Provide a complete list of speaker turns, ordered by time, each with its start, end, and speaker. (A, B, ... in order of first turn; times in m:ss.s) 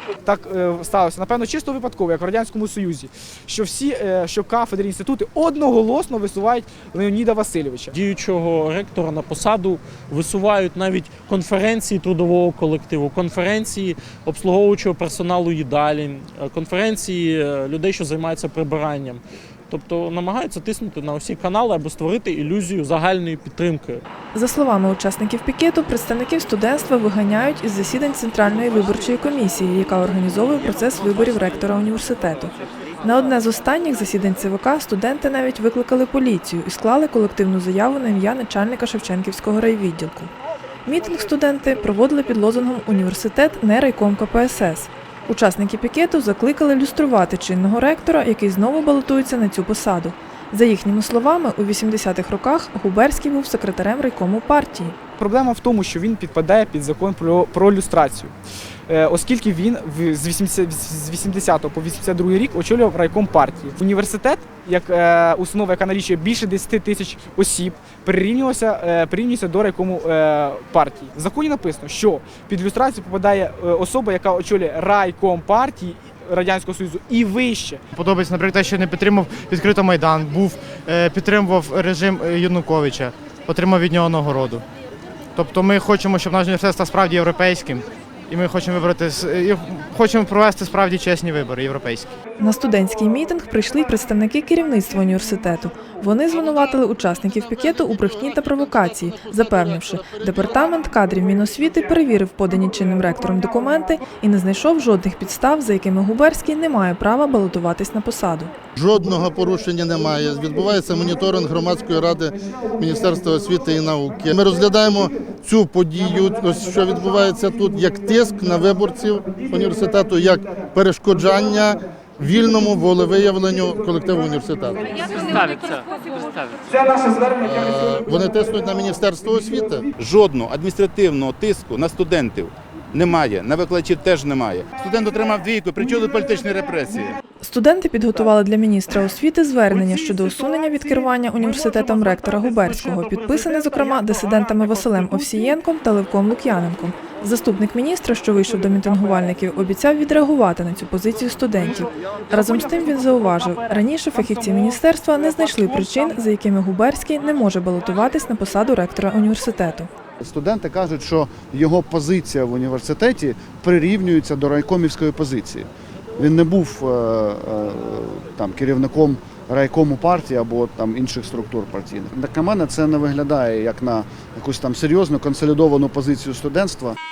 0:00.2-0:07.9 A
0:07.9-0:24.0 B
0:24.3-0:40.3 C
0:40.8-0:55.0 C
0:55.2-0:58.3 A
0:58.9-1:17.8 A
1:17.9-1:24.6 D
1:25.4-1:32.1 D
1:32.4-1:48.5 C
1:48.8-2:05.3 E
2:06.7-2:07.0 F
2:07.3-2:09.9 E
2:09.9-2:17.2 F
2:17.4-2:39.9 C
2:40.2-2:56.9 G